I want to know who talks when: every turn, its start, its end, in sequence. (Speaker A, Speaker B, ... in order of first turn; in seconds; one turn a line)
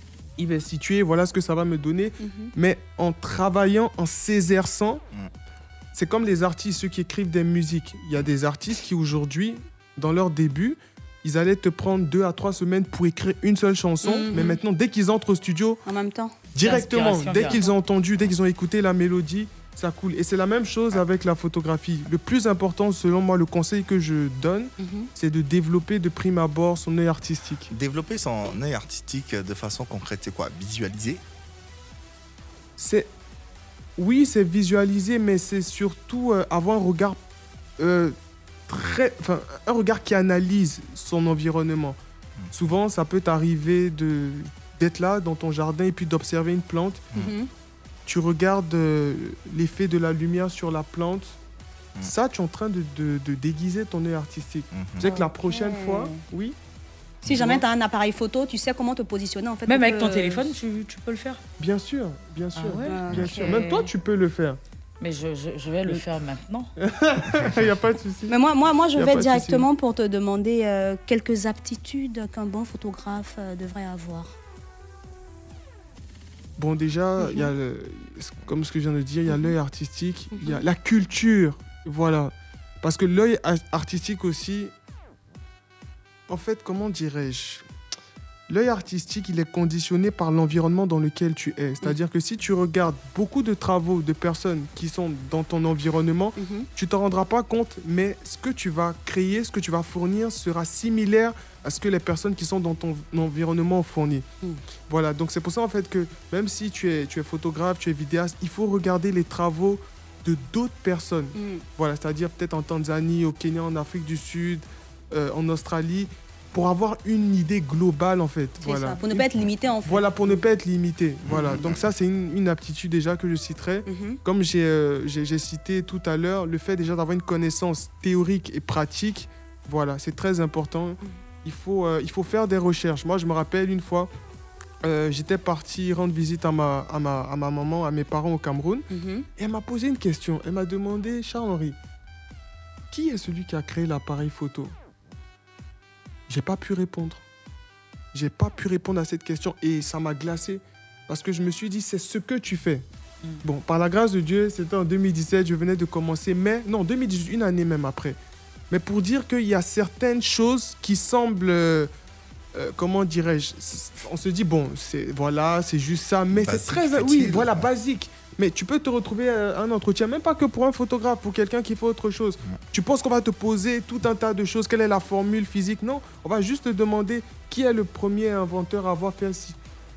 Speaker A: 0.4-5.0
Speaker B: 2.2-2.5
Speaker A: 5.9-15.8
Speaker B: 14.0-14.6
Speaker B: 15.9-16.4
Speaker A: 16.5-27.7
Speaker C: 16.6-17.6
Speaker B: 17.4-17.7
Speaker B: 24.8-25.1
Speaker D: 27.7-31.2
Speaker A: 32.8-33.1
Speaker A: 34.0-37.2
Speaker A: 37.8-38.1
Speaker A: 38.7-42.0
Speaker A: 42.5-47.0
Speaker B: 47.1-47.5
Speaker A: 48.1-51.4
Speaker A: 52.0-56.6
Speaker D: 54.7-55.0
Speaker B: 55.0-56.2
Speaker D: 57.2-57.6
Speaker B: 57.2-60.5
Speaker C: 59.7-61.4
Speaker A: 61.6-64.6
Speaker C: 62.5-63.9
Speaker B: 62.9-63.5
Speaker D: 63.1-63.3
Speaker C: 65.0-66.7
Speaker A: 66.8-68.3
Speaker B: 68.3-74.3
Speaker A: 69.0-69.7
Speaker A: 76.6-84.7
Speaker B: 77.2-77.5
Speaker B: 79.3-79.5
Speaker B: 80.3-80.7
Speaker A: 86.3-87.6
Speaker A: 88.5-104.2
Speaker B: 96.4-96.7
Speaker A: 104.9-119.2
Speaker B: 111.3-111.6
Speaker B: 118.6-120.4
Speaker A: 119.8-134.1
Speaker D: 121.3-121.8
Speaker B: 123.9-124.2
Speaker A: 134.8-138.8
Speaker B: 138.9-139.3
Speaker A: 139.4-141.8
Speaker A: 142.9-144.7
Speaker A: 146.3-147.2
Speaker A: 148.1-152.8
Speaker A: 153.4-158.2
Speaker A: 158.7-161.9
Speaker A: 162.5-179.6
Speaker D: 166.3-167.7